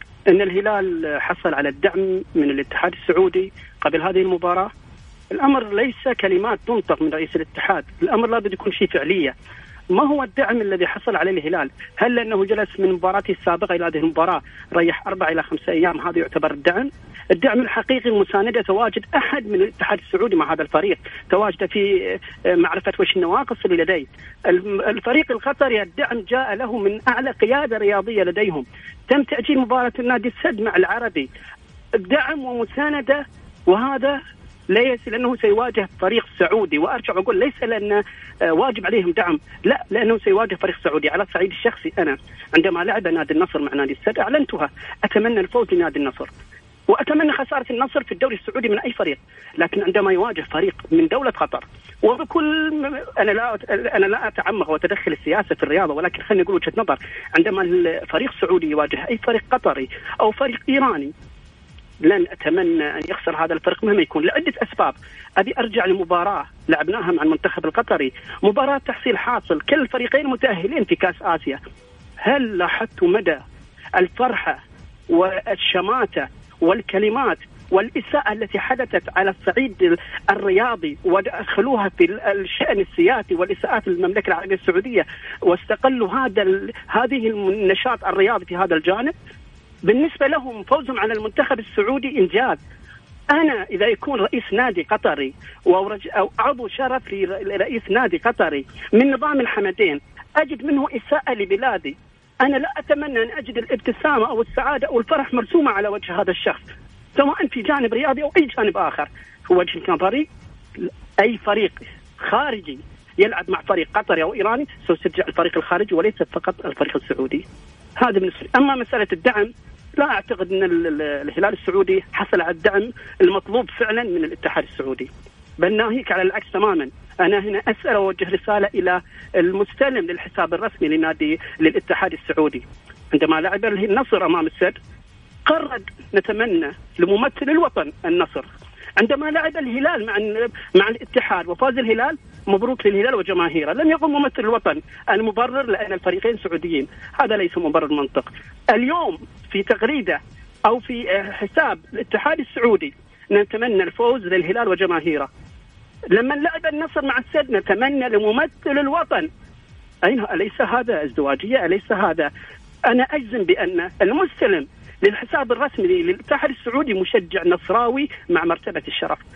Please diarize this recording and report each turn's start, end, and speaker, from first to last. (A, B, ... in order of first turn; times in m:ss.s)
0:00.3-0:04.7 A
0:05.3-0:09.3 A
0:09.9-0:31.3 A
0:32.0-0:46.3 A
0:46.9-1:01.1 A
1:02.0-1:11.6 A
1:12.2-1:13.4 A
1:14.0-1:29.1 A
1:29.9-1:32.6 A
1:33.3-1:46.6 A
1:47.2-1:50.3 A
1:50.8-1:57.4 A
1:58.0-2:14.8 A
2:15.5-2:35.3 A
2:36.1-2:39.3 A
2:40.0-2:42.3 A
2:42.9-2:49.2 A